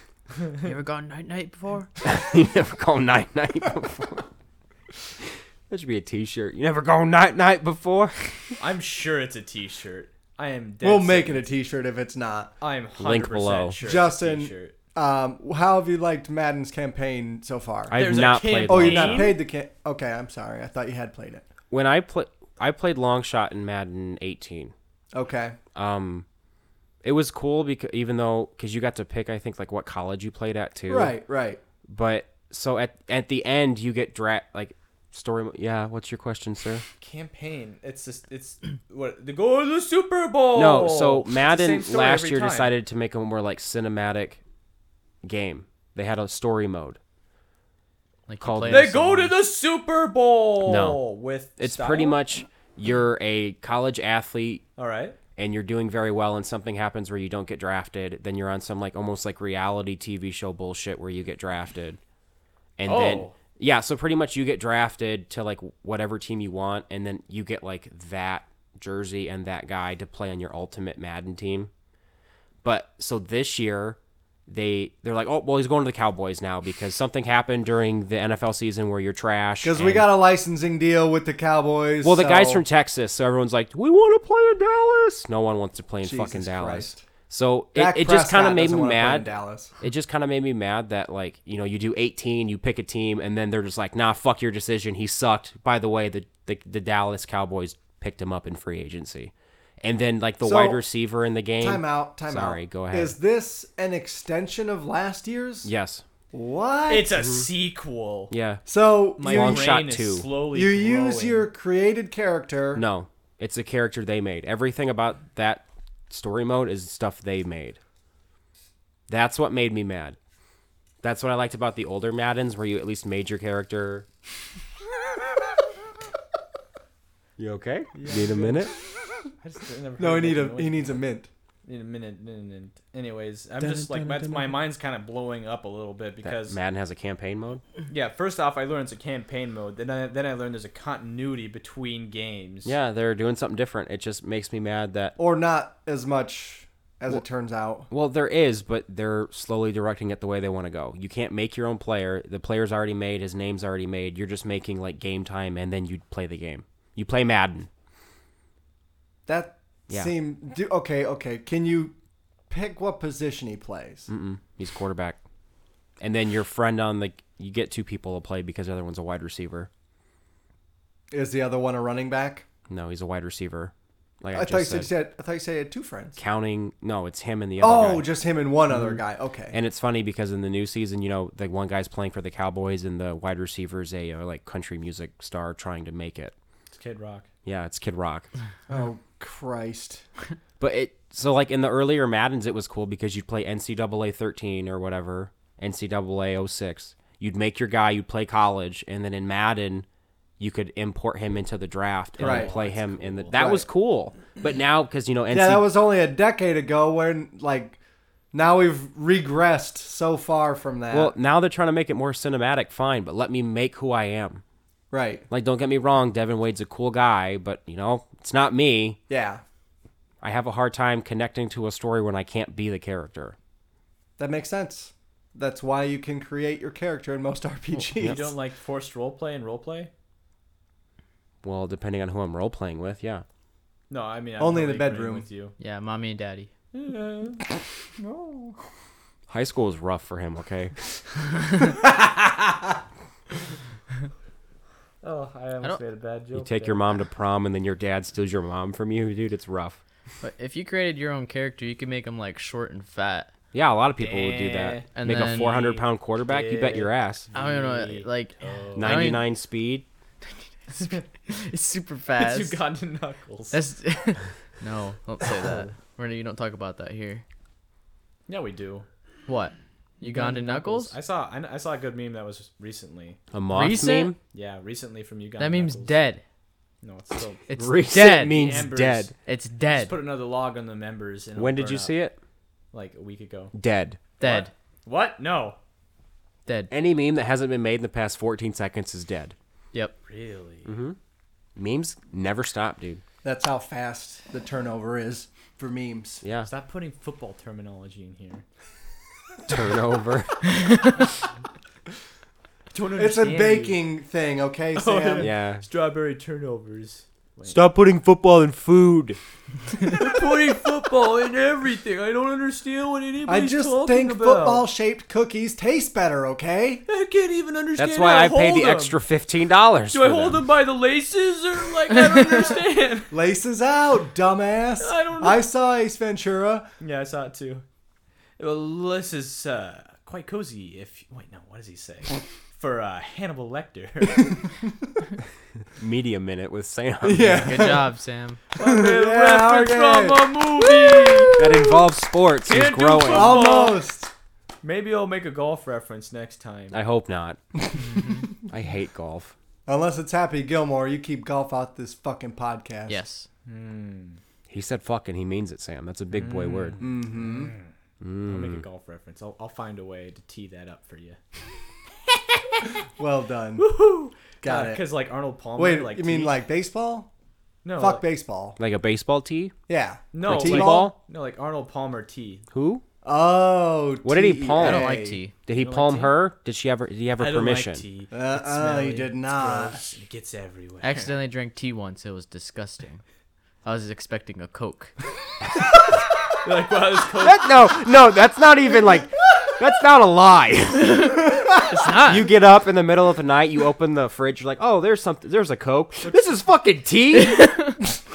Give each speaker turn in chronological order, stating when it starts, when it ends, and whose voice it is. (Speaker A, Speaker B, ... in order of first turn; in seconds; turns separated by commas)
Speaker A: 0.6-1.9, Speaker B: 2.0-4.3, Speaker B: 5.7-8.6, Speaker C: 8.6-11.4, Speaker D: 10.8-12.5, Speaker C: 12.6-14.7, Speaker B: 13.0-13.8, Speaker D: 13.8-18.0, Speaker B: 17.9-19.3, Speaker C: 17.9-19.4, Speaker D: 18.6-21.4, Speaker B: 21.7-24.7, Speaker D: 25.1-25.6, Speaker B: 25.7-26.2, Speaker B: 27.0-31.2, Speaker D: 30.9-31.6, Speaker B: 31.9-36.8, Speaker C: 37.0-42.7, Speaker B: 40.5-44.4, Speaker B: 45.2-47.0, Speaker A: 48.3-49.3, Speaker B: 48.4-49.1, Speaker C: 48.6-52.2, Speaker B: 50.6-51.0, Speaker B: 51.6-54.6, Speaker C: 54.8-55.1, Speaker B: 55.4-62.0, Speaker B: 62.8-71.7, Speaker C: 62.8-63.3, Speaker B: 72.6-80.1, Speaker D: 79.6-82.6, Speaker B: 82.0-89.3, Speaker D: 86.0-87.0, Speaker D: 87.7-89.7, Speaker B: 89.8-103.2, Speaker D: 100.4-100.8, Speaker D: 101.6-105.7, Speaker B: 105.6-106.0, Speaker D: 106.3-107.1, Speaker C: 106.9-108.3, Speaker B: 108.3-108.6, Speaker D: 108.7-109.8, Speaker C: 109.2-111.5, Speaker B: 109.2-110.3, Speaker D: 110.5-112.8, Speaker B: 112.8-117.8, Speaker B: 119.1-120.2, Speaker B: 121.0-124.0, Speaker B: 127.4-128.7, Speaker C: 127.9-128.7, Speaker C: 129.4-131.0, Speaker D: 130.0-131.3, Speaker C: 131.6-136.6, Speaker B: 133.6-134.6, Speaker B: 136.2-137.6, Speaker C: 137.9-142.7, Speaker B: 142.6-145.2, Speaker D: 145.2-147.9, Speaker B: 147.9-157.7, Speaker D: 159.3-161.9, Speaker D: 162.5-164.1, Speaker B: 164.1-165.2, Speaker B: 166.0-169.7, Speaker D: 171.1-172.4, Speaker B: 172.7-174.9, Speaker D: 174.3-176.2, Speaker B: 176.2-178.1, Speaker D: 177.6-179.6, Speaker B: 178.7-186.3, Speaker C: 186.7-187.3, Speaker B: 187.4-188.3, Speaker D: 188.7-190.0, Speaker B: 190.6-199.8, Speaker B: 200.4-205.7, Speaker C: 202.2-203.4, Speaker D: 202.2-202.5, Speaker D: 203.3-203.6, Speaker D: 205.3-207.8, Speaker D: 208.3-211.1, Speaker B: 210.9-214.4, Speaker D: 214.9-215.2, Speaker B: 215.3-219.0, Speaker D: 219.1-219.4, Speaker B: 220.2-223.3, Speaker D: 224.2-228.3, Speaker C: 227.9-229.9, Speaker B: 228.0-228.2, Speaker B: 231.4-233.2, Speaker C: 233.9-235.6, Speaker D: 234.4-235.2, Speaker A: 235.6-236.5, Speaker C: 236.7-237.4, Speaker C: 238.0-238.6, Speaker B: 239.3-240.7, Speaker C: 245.0-247.0, Speaker B: 246.3-249.8, Speaker A: 250.2-253.3, Speaker B: 253.5-257.3, Speaker C: 254.0-259.1, Speaker A: 254.9-255.5, Speaker A: 257.3-259.2, Speaker B: 258.8-259.9, Speaker A: 260.7-262.6, Speaker C: 262.2-263.6, Speaker A: 263.5-267.2, Speaker C: 265.3-265.6, Speaker C: 268.3-268.9, Speaker A: 269.3-270.9, Speaker C: 270.0-273.2, Speaker B: 273.3-274.2, Speaker A: 273.5-274.1, Speaker C: 274.3-275.9, Speaker A: 275.4-276.2, Speaker C: 276.8-277.4, Speaker A: 277.5-278.4, Speaker B: 277.5-279.1, Speaker C: 278.2-279.1, Speaker A: 279.2-279.9, Speaker C: 279.7-281.9, Speaker B: 281.4-282.2, Speaker C: 282.7-283.5, Speaker B: 283.5-284.0, Speaker A: 284.2-284.5, Speaker C: 284.2-285.6, Speaker B: 286.7-289.3, Speaker C: 290.1-290.7, Speaker B: 290.6-291.0, Speaker B: 291.6-293.0, Speaker D: 293.2-296.2, Speaker B: 296.2-296.5, Speaker C: 296.4-298.4, Speaker B: 299.5-300.6, Speaker C: 302.7-303.8, Speaker D: 302.9-305.3, Speaker C: 304.8-307.6, Speaker B: 305.2-305.6, Speaker B: 307.4-309.2, Speaker C: 309.8-314.6, Speaker D: 313.2-316.8, Speaker C: 316.9-319.0, Speaker B: 317.8-320.4, Speaker C: 319.9-323.1, Speaker D: 323.1-326.7, Speaker C: 324.8-325.4, Speaker C: 326.8-327.6, Speaker C: 328.4-334.4, Speaker B: 335.8-337.6, Speaker D: 337.0-337.9, Speaker A: 337.4-338.4, Speaker C: 338.6-341.6, Speaker D: 338.6-341.3, Speaker B: 341.4-343.4, Speaker C: 342.4-343.8, Speaker D: 343.1-344.1, Speaker C: 344.6-346.8, Speaker B: 346.7-347.4, Speaker B: 348.5-349.3, Speaker D: 349.7-353.0, Speaker A: 352.9-353.3, Speaker C: 353.4-354.2, Speaker B: 354.5-356.8, Speaker C: 356.1-357.7, Speaker D: 356.8-357.5, Speaker B: 358.0-358.6, Speaker C: 358.2-361.2, Speaker D: 363.0-363.7, Speaker C: 363.6-366.4, Speaker D: 364.4-364.8, Speaker D: 365.6-367.1, Speaker C: 367.6-368.0, Speaker D: 367.8-368.6, Speaker B: 368.6-369.5, Speaker D: 369.7-370.9, Speaker C: 370.1-372.4, Speaker B: 370.2-370.9, Speaker B: 372.5-372.8, Speaker D: 373.0-375.2, Speaker B: 374.0-377.8, Speaker A: 374.6-375.3, Speaker C: 375.5-376.2, Speaker C: 377.2-381.2, Speaker D: 378.1-379.9, Speaker A: 380.8-383.0, Speaker A: 383.6-384.9, Speaker C: 386.4-387.5, Speaker B: 387.2-391.3, Speaker A: 390.9-392.3, Speaker B: 391.9-397.7, Speaker C: 396.0-396.3, Speaker A: 397.1-397.8